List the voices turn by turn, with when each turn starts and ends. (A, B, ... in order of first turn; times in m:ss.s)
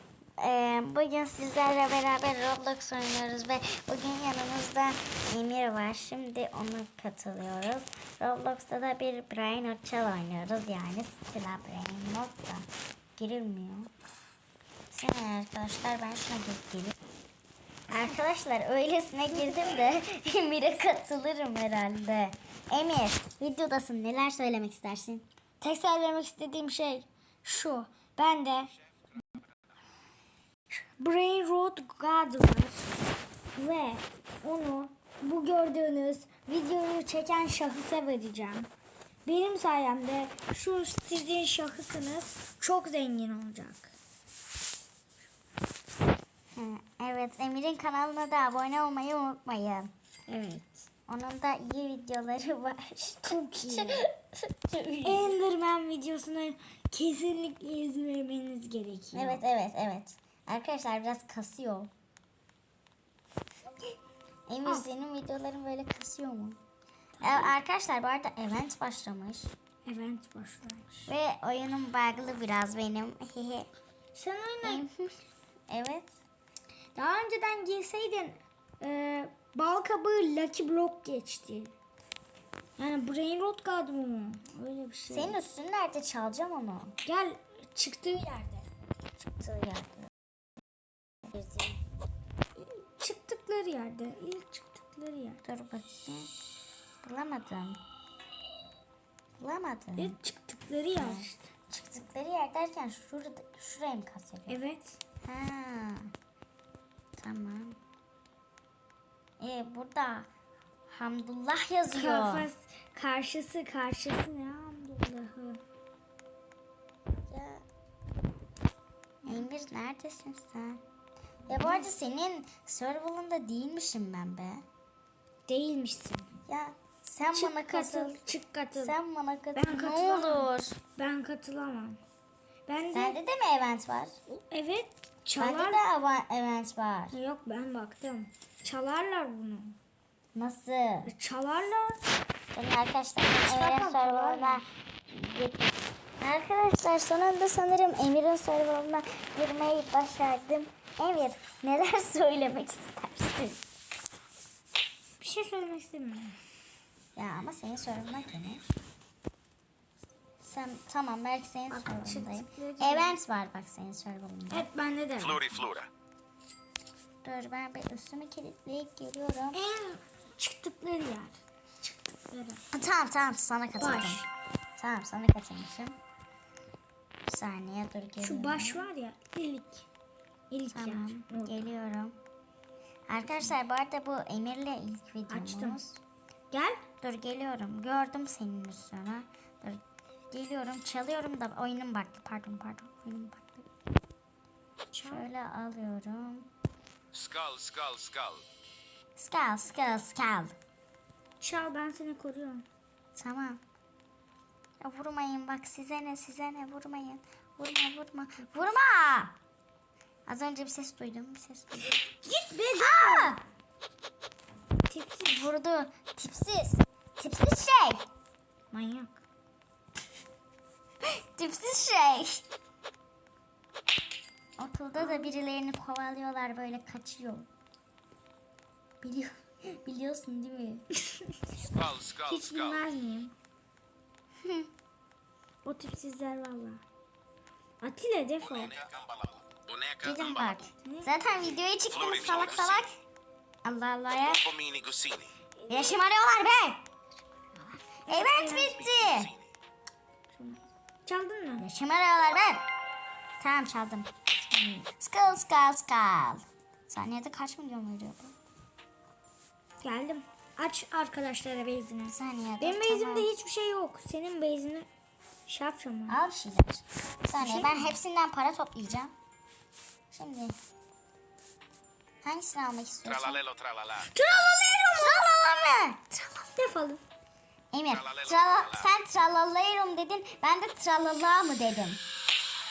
0:00.4-0:13.9 A
0:14.9-0:17.0 A
0:17.9-0:25.3 A
0:25.6-0:28.7 B
0:30.8-0:32.9 B
0:33.6-0:38.7 B
0:39.2-0:43.9 B
0:46.6-0:49.9 A
0:50.3-0:50.8 B
0:51.1-0:55.3 A
0:53.2-0:54.0 B
0:55.0-0:59.4 B
0:59.1-1:01.9 A
1:04.5-1:06.6 A
1:07.2-1:07.6 B
1:07.2-1:09.5 A
1:09.8-1:11.1 B
1:11.1-1:13.7 A
1:14.1-1:14.9 B
1:14.6-1:15.1 A
1:15.7-1:16.2 A
1:17.0-1:21.7 B
1:22.8-1:25.4 B
1:25.1-1:27.0 A
1:27.0-1:28.7 B
1:29.3-1:30.1 A
1:31.2-1:31.8 A
1:32.6-1:35.4 B
1:35.4-1:36.3 A
1:37.0-1:37.8 A
1:39.4-1:40.2 A
1:40.0-1:41.5 B
1:41.0-1:44.6 A
1:44.5-1:45.0 B
1:45.2-1:46.1 A
1:47.2-1:47.8 A
1:49.4-1:50.3 A
1:50.9-1:52.5 A
1:51.9-1:55.6 B
1:57.3-1:57.6 A
1:59.2-2:00.8 A
2:01.5-2:04.6 A
2:01.5-2:01.9 B
2:05.5-2:06.3 B
2:06.5-2:08.2 A
2:07.3-2:09.0 B
2:08.8-2:10.8 A
2:09.6-2:12.0 B
2:12.7-2:13.2 B
2:12.9-2:14.2 A
2:14.3-2:15.8 B
2:15.4-2:17.2 A
2:17.1-2:19.8 B
2:20.3-2:21.1 A
2:21.1-2:22.1 B
2:22.5-2:33.6 A
2:23.4-2:24.6 B
2:35.2-2:36.4 B
2:37.2-2:38.6 A
2:40.4-2:44.7 A
2:41.7-2:43.2 B
2:44.5-2:45.6 B
2:45.3-2:45.9 C
2:47.2-2:49.6 A
2:49.5-2:52.6 B
2:52.7-2:54.2 A
2:53.8-2:54.3 B
2:54.8-2:56.0 A
2:57.2-2:58.8 A
2:58.2-2:59.8 B
3:00.5-3:01.7 B
3:00.7-3:02.2 A
3:03.1-3:06.0 A
3:05.3-3:05.8 B
3:06.5-3:06.8 B
3:07.0-3:13.7 A
3:14.9-3:15.2 B
3:15.0-3:16.5 A
3:17.1-3:18.4 C
3:19.2-3:20.5 A
3:21.4-3:22.7 B
3:23.2-3:23.6 A
3:24.8-3:29.3 A
3:30.2-3:32.0 A
3:31.9-3:33.4 B
3:32.8-3:33.4 A
3:34.9-3:35.5 B
3:35.2-3:38.0 A
3:38.7-3:39.1 B
3:41.0-3:42.4 A
3:44.6-3:47.5 A
3:44.9-3:45.3 B
3:49.0-3:50.8 A
3:51.7-3:52.2 C
3:52.2-3:53.3 B
3:54.4-3:54.7 A
3:55.6-3:56.8 B
3:57.8-3:58.8 B
3:59.7-4:00.0 C
4:00.0-4:02.9 A
4:02.0-4:02.8 B
4:02.1-4:02.5 C
4:03.6-4:04.5 A
4:04.5-4:05.3 C
4:05.6-4:06.0 B
4:05.7-4:06.8 A
4:08.1-4:08.8 B
4:08.1-4:09.3 A
4:10.3-4:11.6 B
4:11.6-4:12.6 A
4:13.4-4:14.1 A
4:14.5-4:14.9 B
4:15.0-4:18.3 A
4:19.8-4:24.9 B
4:22.1-4:23.3 A
4:25.5-4:26.2 B
4:26.1-4:29.1 A
4:27.4-4:27.9 B
4:30.1-4:30.5 A
4:32.2-4:33.4 A
4:33.3-4:33.9 C
4:33.9-4:35.3 B
4:34.9-4:36.2 A
4:36.3-4:37.0 B
4:37.7-4:42.0 A